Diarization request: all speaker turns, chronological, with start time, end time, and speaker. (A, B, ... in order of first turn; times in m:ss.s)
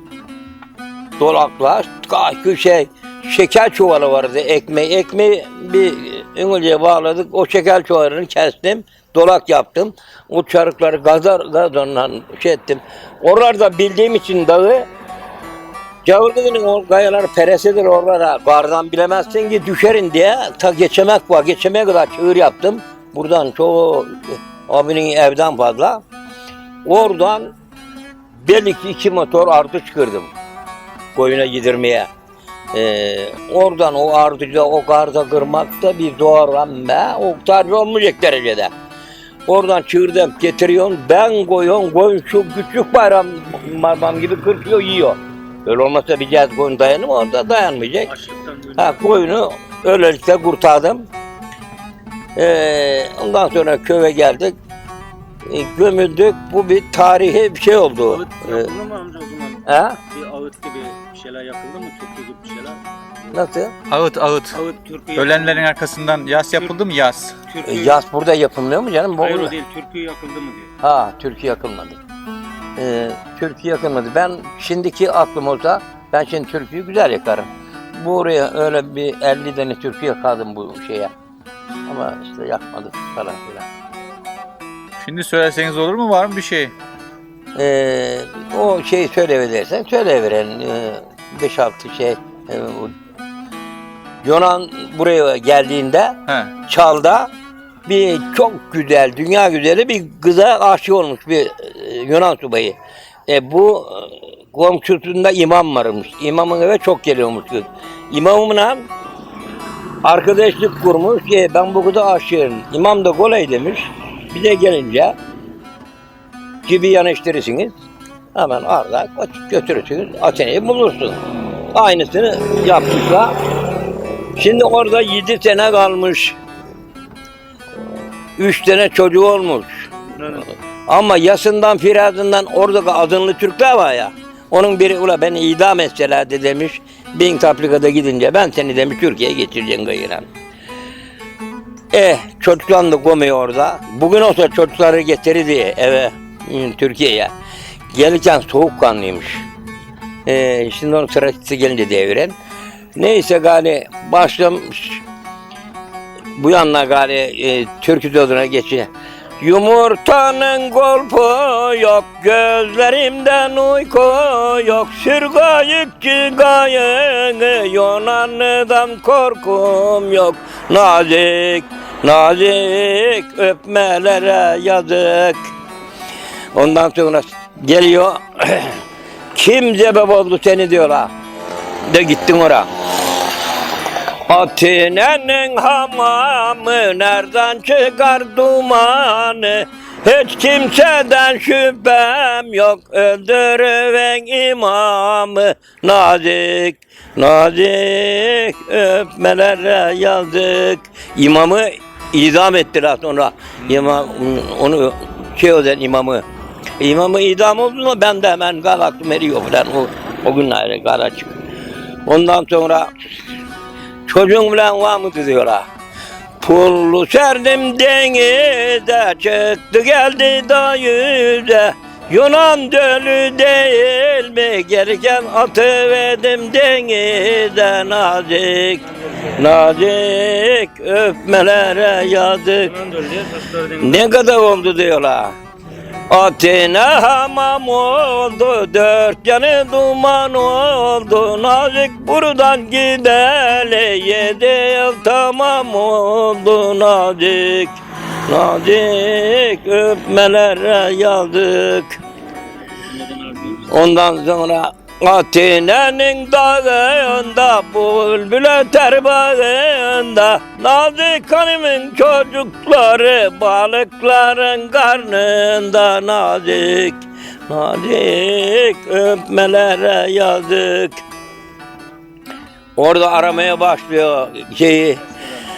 0:01.2-0:14.9 A
0:16.0-0:26.0 A
0:26.8-0:27.5 A
0:28.4-0:30.3 A
0:31.1-0:32.1 A
0:32.7-0:38.7 A
0:39.5-0:48.1 A
0:48.1-0:49.0 B
0:48.8-0:51.0 A
0:52.4-0:54.6 A
0:55.4-0:58.7 A
0:58.1-1:02.8 B
0:59.6-1:00.0 A
1:03.3-1:03.7 A
1:03.9-1:04.6 C
1:04.6-1:05.6 B
1:05.1-1:07.4 C
1:07.5-1:08.0 B
1:07.6-1:09.6 A
1:09.2-1:10.7 B
1:10.8-1:12.0 A
1:12.8-1:21.1 A
1:21.9-1:23.6 A
1:25.0-1:26.7 C
1:27.5-1:32.9 A
1:34.2-1:37.3 A
1:36.3-1:36.5 C
1:37.8-1:42.8 A
1:43.3-1:48.8 A
1:50.0-1:55.1 A
1:56.6-1:57.7 A
1:58.3-2:01.2 A
2:01.7-2:03.3 A
2:04.4-2:06.4 A
2:08.4-2:20.3 A
2:21.9-2:27.3 A
2:27.9-2:29.4 A
2:30.2-2:32.3 A
2:33.0-2:35.0 A
2:36.4-2:38.9 A
2:39.4-2:55.5 A
2:56.5-2:58.8 A
2:59.3-3:01.1 A
3:01.8-3:02.7 A
3:04.3-3:26.2 A
3:26.8-3:31.4 A
3:32.0-3:32.9 A
3:34.0-3:35.6 A
3:36.4-3:52.7 A
3:52.6-3:54.0 B
3:53.8-3:55.4 A
3:56.1-4:12.0 A
4:13.2-4:13.5 B
4:13.6-4:31.0 A
4:32.8-4:35.0 A